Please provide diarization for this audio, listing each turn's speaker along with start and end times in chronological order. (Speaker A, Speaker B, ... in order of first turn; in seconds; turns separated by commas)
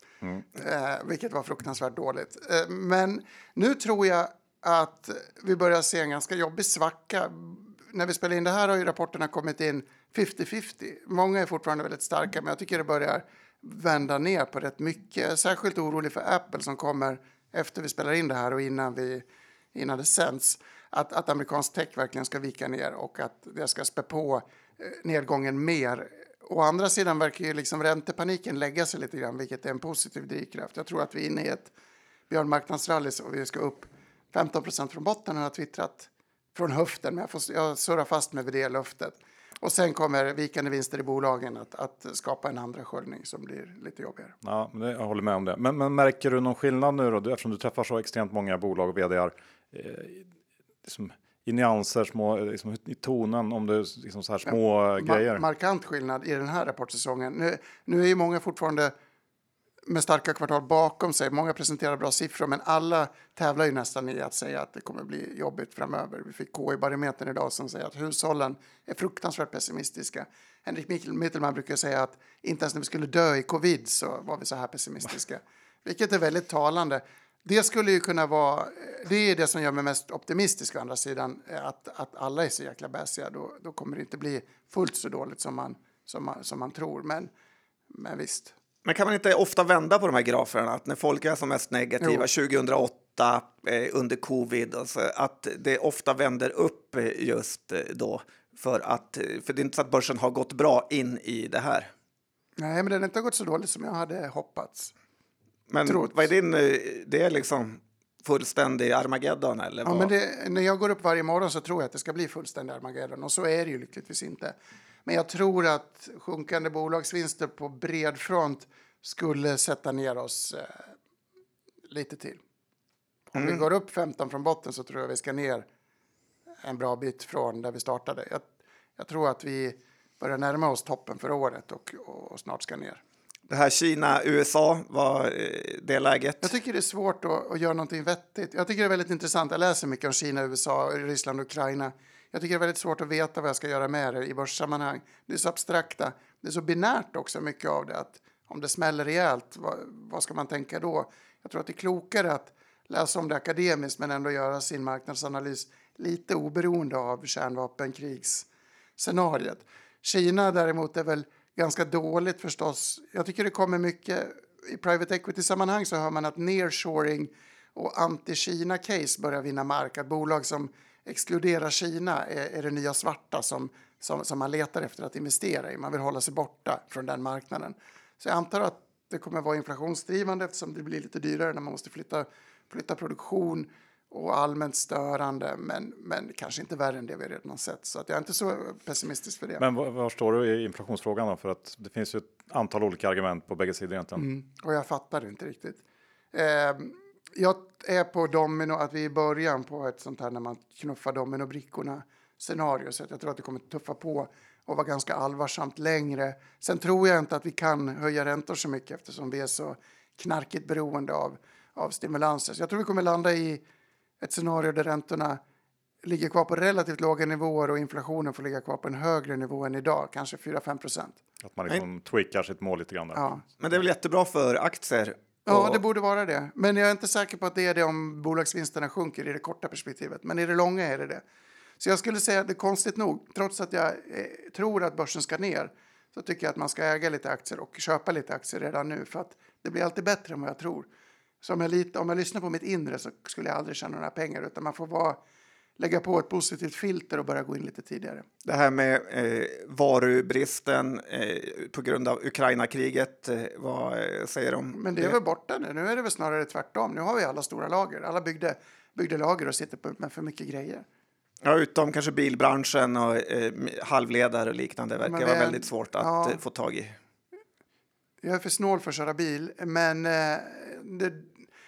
Speaker A: 0.5-31.7, Speaker A: 32.3-44.3, Speaker B: 44.4-50.3, Speaker B: 50.8-55.4, Speaker A: 54.5-58.9, Speaker A: 59.9-87.3, Speaker A: 87.9-88.5, Speaker C: 88.8-101.9, Speaker A: 92.0-92.2, Speaker A: 102.6-104.9, Speaker C: 105.7-110.1, Speaker A: 105.8-106.3, Speaker A: 109.8-120.8, Speaker A: 121.9-122.4, Speaker A: 123.3-125.7, Speaker C: 123.3-123.6, Speaker A: 126.6-133.0, Speaker C: 133.5-136.5, Speaker A: 136.4-158.5, Speaker A: 159.0-189.6, Speaker B: 189.6-194.2, Speaker A: 194.2-195.8, Speaker A: 196.3-213.6, Speaker A: 214.2-215.4, Speaker A: 216.0-221.2, Speaker B: 221.4-223.3, Speaker A: 223.1-223.4, Speaker C: 223.6-225.8, Speaker A: 225.5-231.2, Speaker A: 231.8-240.9, Speaker A: 241.4-245.2, Speaker A: 245.8-248.2, Speaker C: 248.4-255.2, Speaker A: 254.7-260.8, Speaker C: 261.4-266.9, Speaker A: 265.0-266.4, Speaker A: 268.2-271.3